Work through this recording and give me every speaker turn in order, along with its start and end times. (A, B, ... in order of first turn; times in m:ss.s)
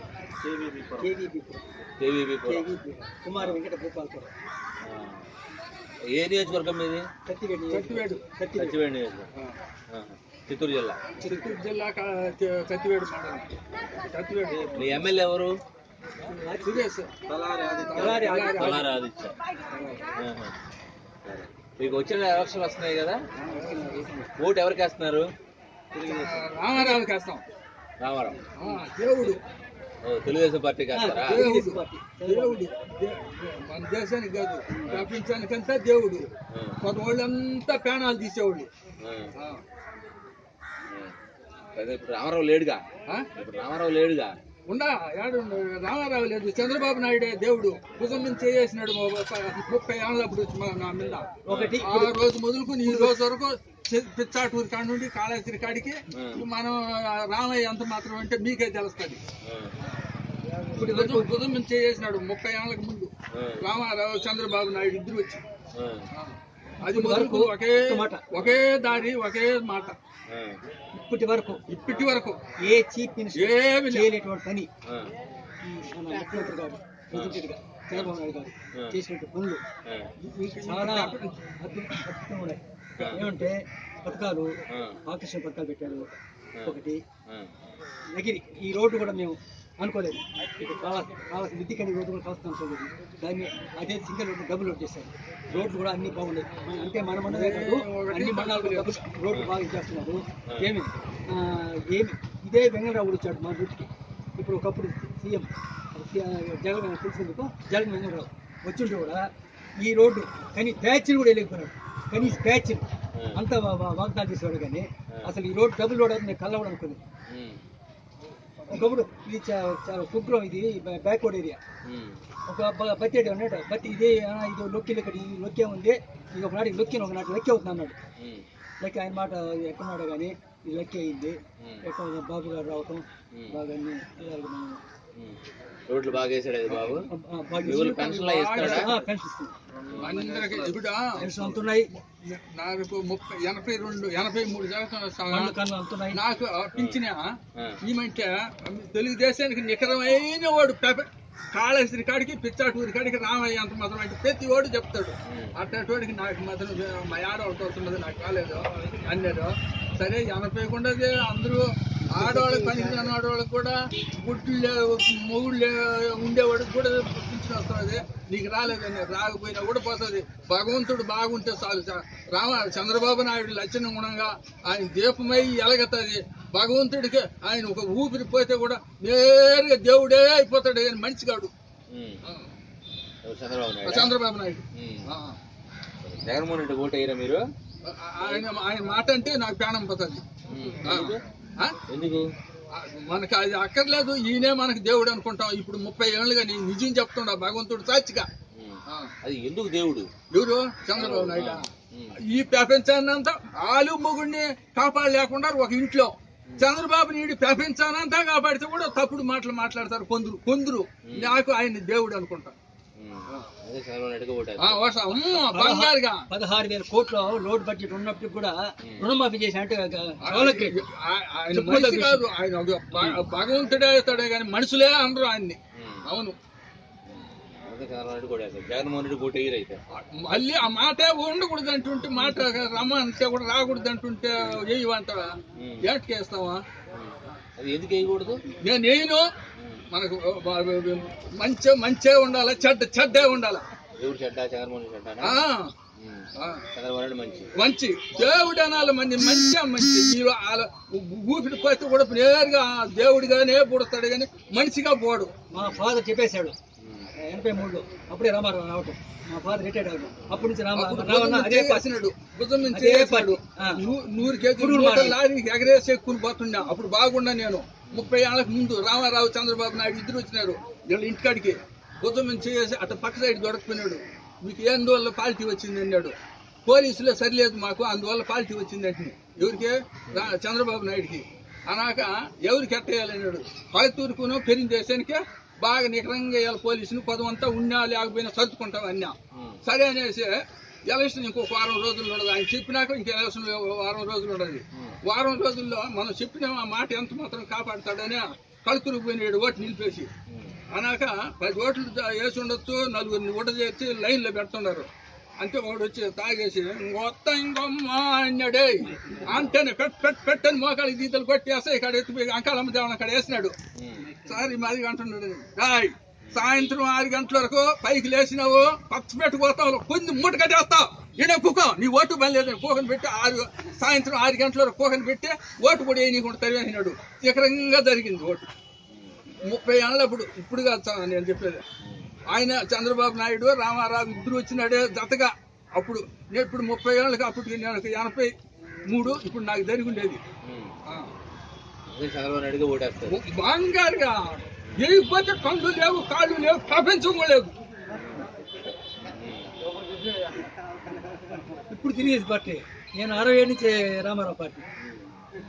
0:00.4-0:01.1 A
0:01.0-0:01.6 B
0:02.0-0:02.7 A
0:02.4-0:04.3 B
0:04.8-0:05.2 A
0:06.1-0:07.0 A
0:07.2-0:08.8 B
0:07.7-0:08.2 C
0:08.6-0:09.3 A
0:09.9-0:11.1 A
0:11.2-0:14.9 C
0:11.2-0:11.6 B
0:14.7-0:15.5 A
0:16.2-0:16.9 B
0:16.6-0:17.1 C
0:17.3-0:19.4 A
0:17.8-0:18.9 C
0:17.9-0:18.9 B
0:19.7-0:20.0 C
0:20.2-0:20.5 A
0:21.2-0:23.2 A
0:23.4-0:24.3 B
0:23.6-0:23.8 C
0:24.4-0:25.2 A
0:26.0-0:26.3 A
0:26.0-0:27.4 C
0:28.0-0:28.4 A
0:28.6-0:29.4 C
0:30.0-0:31.4 A
0:30.9-0:32.6 B
0:31.2-0:36.3 C
0:36.5-0:36.8 A
0:36.8-0:38.7 C
0:39.0-0:39.3 A
0:41.8-0:42.8 A
0:43.3-0:44.3 A
0:44.7-0:59.2 C
0:51.4-0:52.1 B
0:51.5-0:51.8 A
0:52.8-0:53.1 B
0:56.1-0:56.4 A
0:59.4-0:59.7 A
1:00.7-1:01.3 B
1:00.7-1:05.4 C
1:03.3-1:03.6 A
1:05.7-1:06.0 A
1:06.1-1:10.0 C
1:06.8-1:08.2 B
1:10.3-1:10.6 A
1:10.9-1:11.6 B
1:11.7-1:12.4 C
1:12.6-1:14.7 B
1:13.3-1:14.1 C
1:14.8-1:15.1 A
1:15.6-1:19.6 B
1:17.1-1:17.4 A
1:20.4-1:21.4 C
1:20.4-1:24.5 B
1:24.7-1:25.0 A
1:25.0-1:26.1 B
1:26.6-1:27.5 A
1:26.6-1:27.0 B
1:28.1-1:49.2 B
1:37.2-1:39.0 C
1:49.8-1:57.0 B
1:52.1-1:52.4 A
1:57.3-1:57.6 A
1:58.7-2:01.6 B
2:01.8-2:02.2 A
2:02.5-2:08.0 B
2:08.2-2:08.4 A
2:08.8-2:14.8 B
2:13.3-2:13.6 A
2:15.9-2:17.1 A
2:16.7-2:17.0 C
2:17.1-2:19.5 B
2:17.6-2:18.9 A
2:17.6-2:19.0 C
2:19.8-2:20.2 A
2:20.0-2:21.3 C
2:21.1-2:21.9 B
2:22.2-2:25.5 C
2:25.3-2:26.2 B
2:26.1-2:27.3 C
2:27.8-3:01.5 C
2:42.1-2:43.1 B
3:01.9-3:02.2 A
3:03.2-3:04.2 A
3:03.8-3:05.4 C
3:04.8-3:05.0 A
3:06.0-3:07.4 A
3:07.9-3:10.2 C
3:10.5-3:11.2 A
3:10.8-3:11.8 C
3:11.9-3:12.2 A
3:12.7-3:18.3 C
3:18.5-3:20.1 A
3:20.3-3:21.7 C
3:21.0-3:22.1 A
3:22.3-3:32.5 C
3:31.1-3:31.4 A
3:33.0-3:34.8 A
3:34.6-3:36.2 C
3:35.5-3:40.8 B
3:40.2-3:46.3 C
3:41.5-3:42.2 B
3:47.1-3:49.8 A
3:50.0-3:55.2 C
3:55.6-3:55.8 A
3:55.8-3:56.6 C
3:56.9-3:58.4 A
3:58.6-3:59.2 C
3:59.9-4:03.6 C
4:04.0-4:05.4 A
4:05.2-4:05.7 C
4:06.0-4:07.5 A
4:06.4-4:06.6 C
4:07.6-4:15.3 C
4:15.5-4:16.5 B
4:16.8-4:17.1 A
4:17.2-4:21.9 B
4:20.7-4:36.1 C
4:22.7-4:23.8 B
4:24.6-4:25.2 B
4:36.6-5:00.1 C
5:00.3-5:00.6 A
5:00.7-5:04.9 C
5:05.4-5:13.5 C
5:13.8-5:14.1 A
5:14.2-5:28.5 C
5:29.5-5:31.6 C
5:32.3-5:38.3 C
5:38.9-5:40.2 C
5:40.4-5:40.7 A
5:41.9-5:43.2 A
5:43.0-5:47.5 C
5:47.9-5:48.2 A
5:49.1-5:49.5 A
5:51.7-5:54.6 B
5:54.8-5:55.1 A